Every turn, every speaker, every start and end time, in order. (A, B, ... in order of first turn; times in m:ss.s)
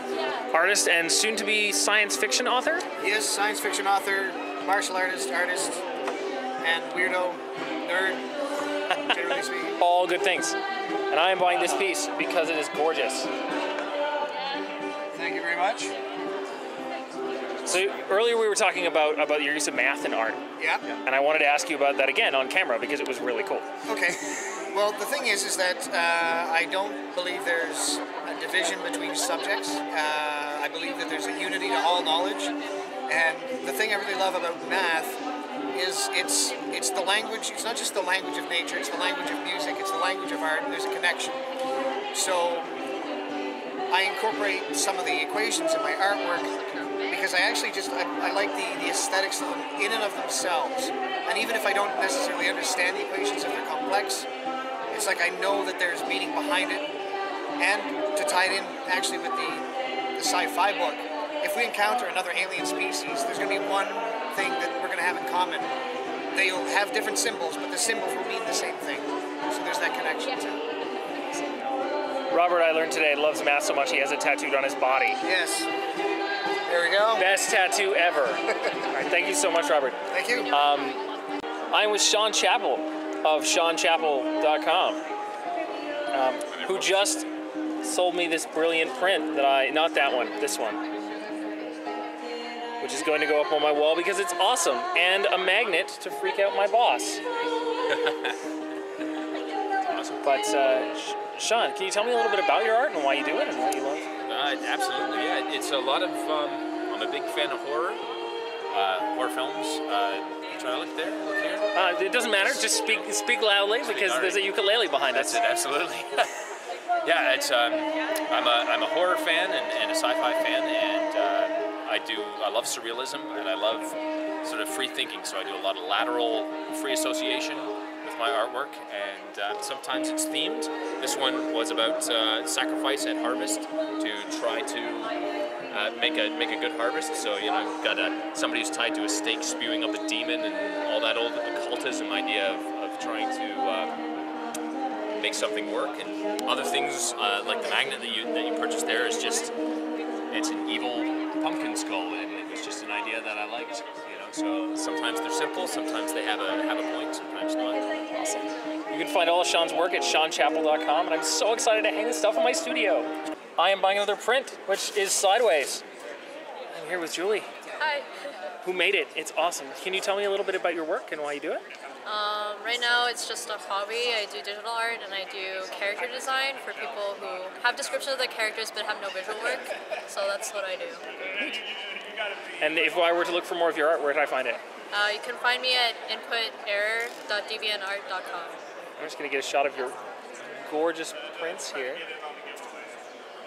0:00.5-0:02.8 A
0:03.0-0:05.8 B
0:06.6-0:08.2 B
0:09.0-0:09.8 B
0:09.8-0:10.6 A
0:11.1-0:13.3 A
0:15.1-0:15.9 B
0:17.6-0:20.4 A
0:20.6-0:20.8 B
0:21.0-0:23.7 A
0:23.9-0:32.5 B
0:33.1-0:35.2 B
0:35.7-0:41.4 B
0:42.1-0:42.7 B
0:43.9-0:54.3 B
0:46.7-0:47.0 C
0:54.9-0:56.9 B
0:57.6-1:05.7 B
1:06.3-1:10.6 B
1:11.3-1:11.7 A
1:12.3-1:15.2 A
1:15.2-1:15.7 B
1:16.7-1:17.3 B
1:17.2-1:20.0 A
1:20.1-1:20.5 B
1:20.5-1:21.0 A
1:21.7-1:25.0 A
1:26.1-1:27.2 A
1:26.5-1:27.2 D
1:27.8-1:30.8 A
1:32.8-1:37.2 A
1:37.9-1:38.4 D
1:39.9-1:40.2 D
1:40.2-1:44.1 A
1:44.2-1:48.0 D
1:48.7-1:51.7 D
1:51.7-1:55.4 A
1:52.4-1:53.0 D
1:53.8-1:54.4 D
1:55.1-1:56.3 D
1:57.0-2:15.2 D
2:15.7-2:24.0 D
2:25.2-2:29.5 D
2:30.3-2:38.5 D
2:38.9-2:45.8 A
2:46.7-2:47.5 A
2:47.8-2:48.1 C
2:48.6-2:51.6 A
2:52.0-3:01.0 C
3:02.6-3:04.6 A
3:04.9-3:08.6 C
3:09.0-3:09.9 A
3:10.5-3:12.0 A